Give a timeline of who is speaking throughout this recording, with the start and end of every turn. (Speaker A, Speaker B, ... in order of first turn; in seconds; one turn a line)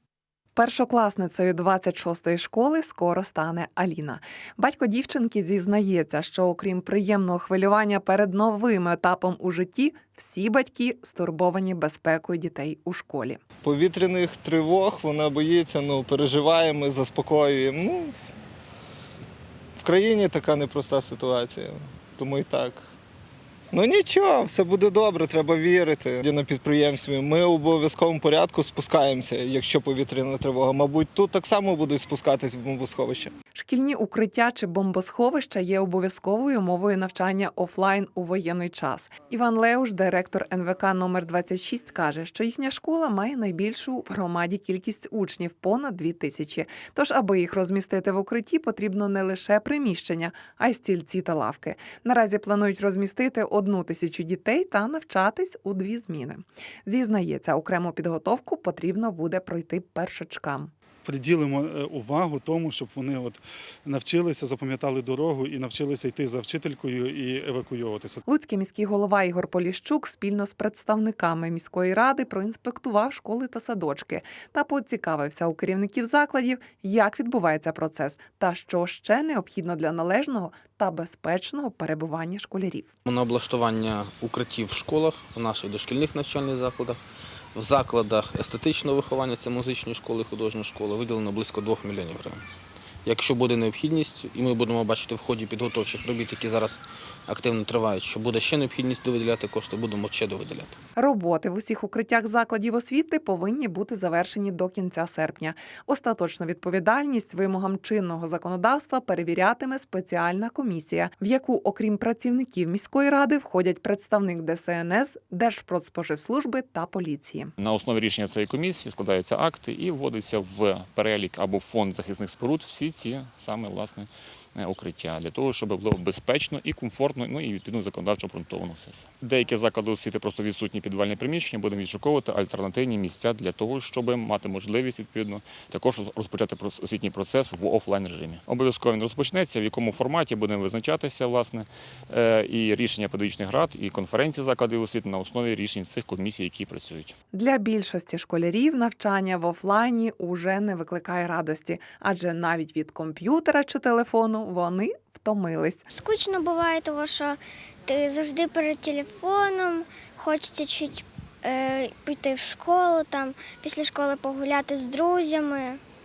Speaker A: 0.6-13.4
Speaker B: 13.6-18.1
Speaker B: 19.8-22.9
Speaker B: 23.7-33.3
Speaker A: 33.5-60.7
Speaker C: 61.0-68.2
Speaker A: 68.3-82.9
Speaker D: 83.1-87.0
Speaker D: 87.6-92.4
Speaker D: 93.0-100.8
Speaker A: 101.0-117.5
Speaker E: 117.6-147.1
Speaker A: 147.3-155.8
Speaker F: 155.9-165.8